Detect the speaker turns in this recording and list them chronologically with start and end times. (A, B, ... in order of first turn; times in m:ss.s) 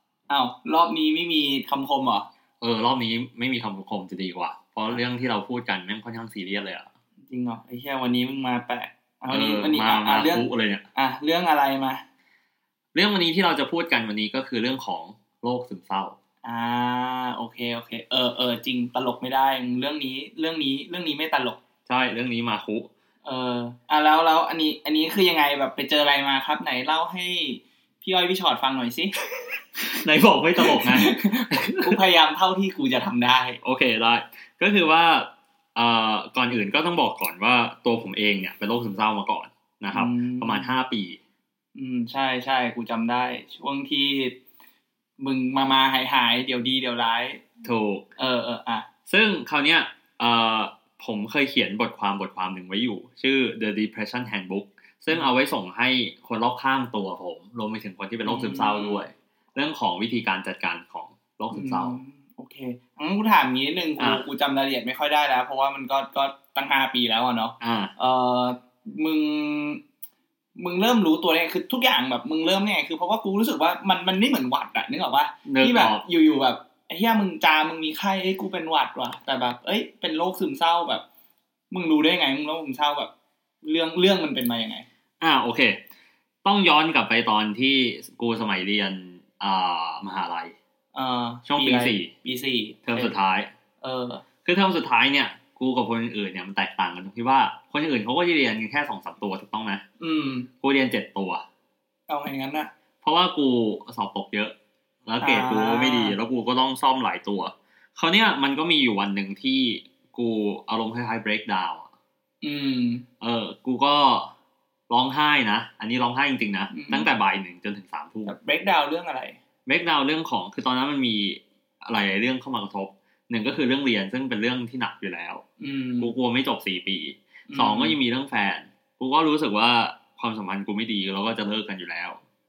0:00.3-0:02.3 A
0:02.6-0:06.9 B
0:07.3-0:12.0 A
0:09.3-0:10.8 B
0:12.9-0:16.2 B
0:16.4-0:21.6 A
0:21.9-0:22.9 B
0:23.2-0:29.1 A
0:29.8-0:32.0 B
0:30.6-0:33.6 A
0:33.6-0:41.2 B
0:39.9-0:40.7 A
0:41.8-0:44.4 A
0:45.2-0:47.4 A
0:47.6-0:48.1 B
0:48.2-0:48.9 A
0:49.1-1:02.0 B
0:58.2-0:59.1 A
1:01.5-1:09.8 A
1:04.0-1:04.2 B
1:07.6-1:07.9 B
1:10.6-1:21.0 A
1:15.4-1:16.0 B
1:21.7-1:23.1 A
1:23.6-1:24.9 A
1:25.2-1:25.8 B
1:26.4-1:30.5 B
1:30.9-1:33.1 A
1:31.5-1:32.1 B
1:32.9-1:33.5 B
1:33.8-1:34.2 A
1:34.4-1:39.8 B
1:40.0-1:40.5 A
1:40.6-1:41.4 B
1:42.1-1:42.7 A
1:43.0-1:44.6 B
1:45.1-1:51.9 B
1:45.2-1:46.2 A
1:52.4-1:53.1 A
1:53.2-1:54.3 B
1:54.9-1:58.3 B
1:56.7-1:57.1 A
1:58.2-1:59.4 A
1:59.7-2:05.4 B
2:05.6-2:06.1 A
2:06.0-2:12.2 B
2:07.5-2:08.0 A